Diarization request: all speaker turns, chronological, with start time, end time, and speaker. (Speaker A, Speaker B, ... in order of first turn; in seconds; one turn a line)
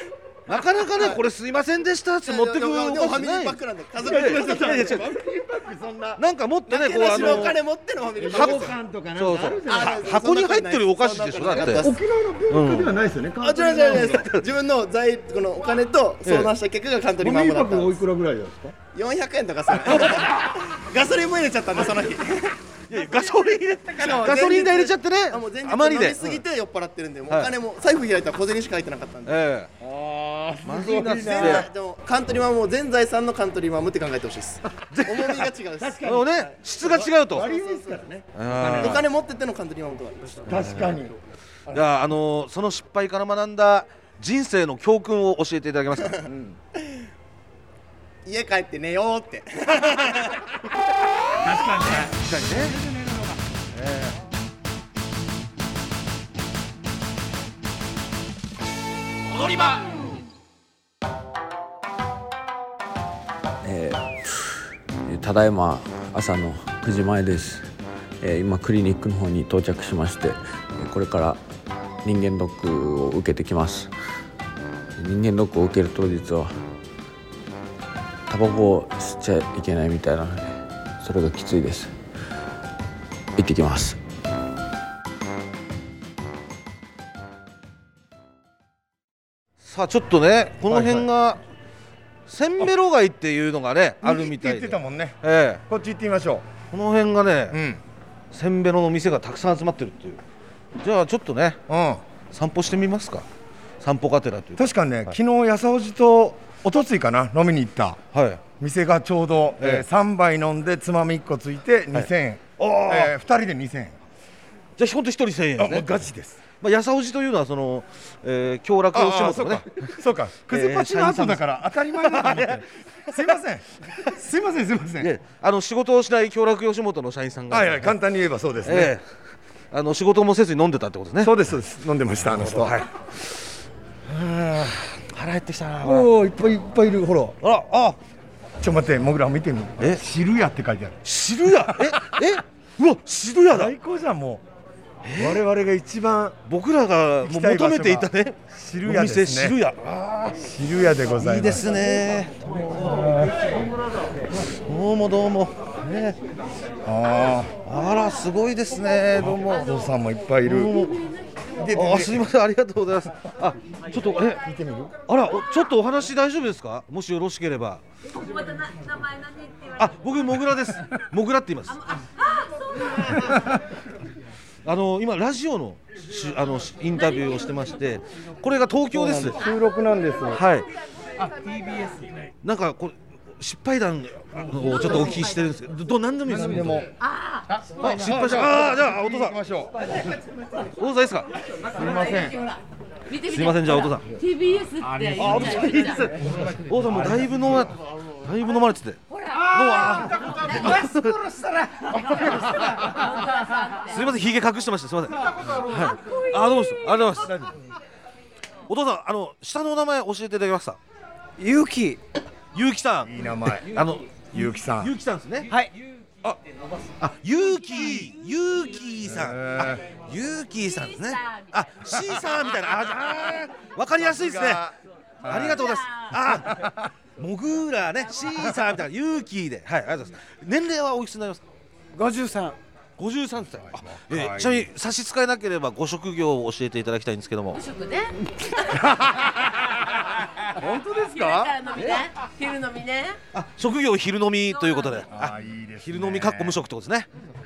Speaker A: 0.5-5.1
Speaker B: 2.2-5.0
Speaker C: 4.0-6.2
Speaker A: 6.2-7.6
Speaker B: 6.7-8.7
Speaker C: 7.0-7.5
Speaker C: 8.1-10.2
Speaker A: 8.3-11.9
Speaker B: 9.7-11.9
Speaker C: 11.6-14.3
Speaker A: 12.5-12.9
Speaker A: 13.4-14.5
Speaker B: 13.4-18.0
Speaker A: 16.2-16.5
Speaker C: 17.2-18.7
Speaker B: 18.9-22.6
Speaker A: 22.9-26.4
Speaker B: 23.9-29.4
Speaker A: 27.3-27.5
Speaker A: 29.2-29.7
Speaker C: 29.8-31.7
Speaker A: 30.6-31.7
Speaker B: 31.0-36.0
Speaker A: 34.9-35.5
Speaker C: 35.8-39.0
Speaker A: 36.0-37.5
Speaker B: 37.1-38.0
Speaker A: 38.3-39.0
Speaker B: 38.8-40.9
Speaker C: 40.5-41.1
Speaker A: 40.5-40.9
Speaker A: 41.7-46.2
Speaker C: 46.2-46.6
Speaker B: 48.2-50.5
Speaker C: 51.4-53.5
Speaker A: 52.2-52.8
Speaker A: 53.7-54.1
Speaker D: 63.6-67.7
Speaker D: 68.2-71.4
Speaker D: 72.0-73.9
Speaker D: 75.0-76.5
Speaker D: 78.3-81.9
Speaker D: 83.3-84.0
Speaker A: 89.6-91.4
Speaker C: 90.7-91.1
Speaker A: 92.3-95.6
Speaker C: 94.0-96.5
Speaker A: 96.7-97.6
Speaker C: 97.5-97.8
Speaker A: 98.3-100.2
Speaker A: 100.8-101.6
Speaker C: 101.7-102.0
Speaker A: 102.3-103.2
Speaker A: 103.8-105.1
Speaker C: 104.6-108.0
Speaker A: 108.1-108.4
Speaker C: 108.6-114.0
Speaker A: 109.6-109.8
Speaker A: 111.9-113.1
Speaker A: 114.8-115.9
Speaker C: 115.6-116.4
Speaker A: 116.6-119.9
Speaker C: 118.9-125.1
Speaker A: 120.5-123.3
Speaker A: 125.0-127.9
Speaker C: 127.5-128.9
Speaker A: 128.6-129.0
Speaker A: 129.7-131.4
Speaker C: 131.2-132.8
Speaker A: 132.2-133.3
Speaker C: 134.1-134.8
Speaker A: 134.8-136.1
Speaker C: 135.8-137.4
Speaker A: 137.4-138.0
Speaker C: 138.6-141.0
Speaker A: 141.0-143.7
Speaker C: 141.5-142.0
Speaker C: 143.5-144.4
Speaker A: 145.0-145.4
Speaker C: 145.1-146.4
Speaker A: 146.5-150.4
Speaker C: 147.2-149.6
Speaker C: 150.4-151.7
Speaker A: 151.2-153.4
Speaker C: 152.8-153.5
Speaker A: 154.5-156.2
Speaker C: 156.8-157.6
Speaker A: 157.6-159.8
Speaker C: 159.1-160.7
Speaker A: 160.4-161.0
Speaker C: 161.6-162.2
Speaker A: 161.7-164.4
Speaker C: 164.3-164.9
Speaker A: 165.1-167.8
Speaker E: 168.1-169.8
Speaker A: 169.8-171.8
Speaker E: 171.7-173.2
Speaker A: 174.6-179.4
Speaker E: 176.9-177.6
Speaker C: 178.9-180.4
Speaker A: 180.3-180.7
Speaker A: 182.4-186.8
Speaker C: 186.3-186.9
Speaker E: 187.0-187.4
Speaker A: 187.8-189.4
Speaker C: 187.8-190.0
Speaker A: 190.8-191.3
Speaker C: 191.7-192.4
Speaker E: 191.8-196.1
Speaker A: 193.3-194.1
Speaker C: 195.1-196.5
Speaker A: 195.1-199.0
Speaker E: 199.1-199.5
Speaker F: 199.3-202.8
Speaker A: 199.5-201.2
Speaker E: 202.9-204.0
Speaker A: 203.9-207.5
Speaker F: 205.4-205.8
Speaker C: 207.2-207.5
Speaker A: 208.7-210.8
Speaker F: 211.4-212.0
Speaker A: 212.5-215.5
Speaker C: 213.0-213.8
Speaker C: 214.3-214.9
Speaker A: 217.0-224.7
Speaker C: 219.0-219.8
Speaker E: 220.7-221.5
Speaker C: 223.9-225.6
Speaker A: 225.2-231.4
Speaker E: 225.6-226.1
Speaker C: 226.2-226.8
Speaker F: 231.9-232.6
Speaker A: 233.0-237.6
Speaker C: 233.8-234.7
Speaker E: 237.5-238.9
Speaker C: 238.9-239.2
Speaker C: 240.6-241.5
Speaker E: 241.0-243.2
Speaker A: 243.3-247.1
Speaker E: 244.5-245.0
Speaker C: 245.1-246.6